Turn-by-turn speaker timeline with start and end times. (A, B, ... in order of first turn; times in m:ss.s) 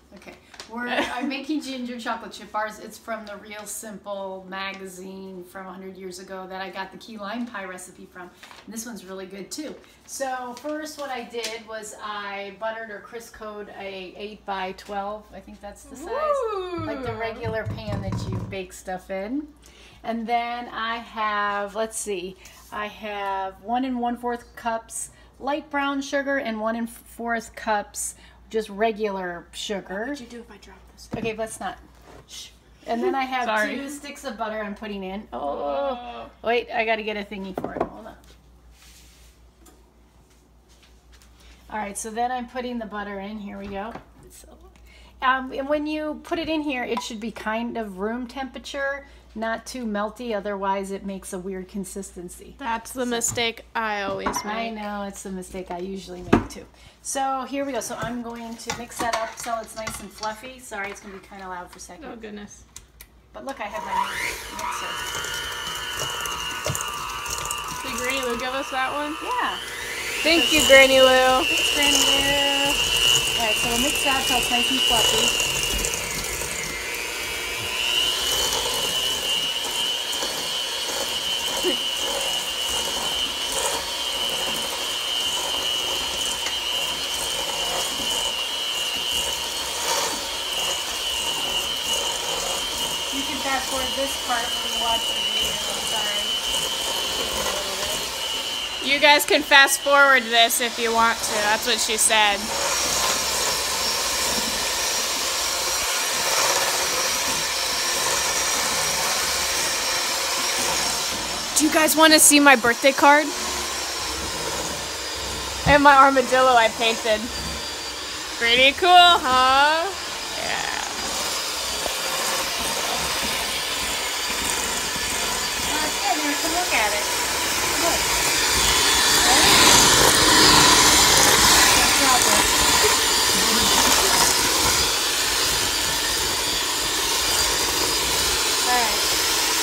0:00.1-0:19.5 A
0:15.9-0:17.5 B
0:20.0-0:30.2 A
0:29.9-0:31.2 B
0:31.1-0:38.2 A
0:33.4-0:33.9 B
0:35.4-0:36.3 B
0:41.7-0:44.7 A
0:45.2-0:53.2 A
0:52.6-0:54.8 B
0:54.4-1:02.2 A
1:02.0-1:02.6 B
1:03.3-1:05.0 A
1:07.8-1:09.2 B
1:09.2-1:09.6 A
1:10.2-1:11.5 B
1:10.2-1:12.8 A
1:13.3-1:15.4 A
1:33.1-1:36.4 A
1:37.1-1:38.1 A
1:38.8-1:42.5 B
1:51.5-1:53.3 B
1:55.6-1:57.3 B
1:58.4-2:01.1 B
2:05.6-2:07.2 A
2:07.7-2:08.1 A
2:09.2-2:09.8 A
2:11.6-2:12.6 A
2:13.3-2:13.8 A
2:18.6-2:19.1 A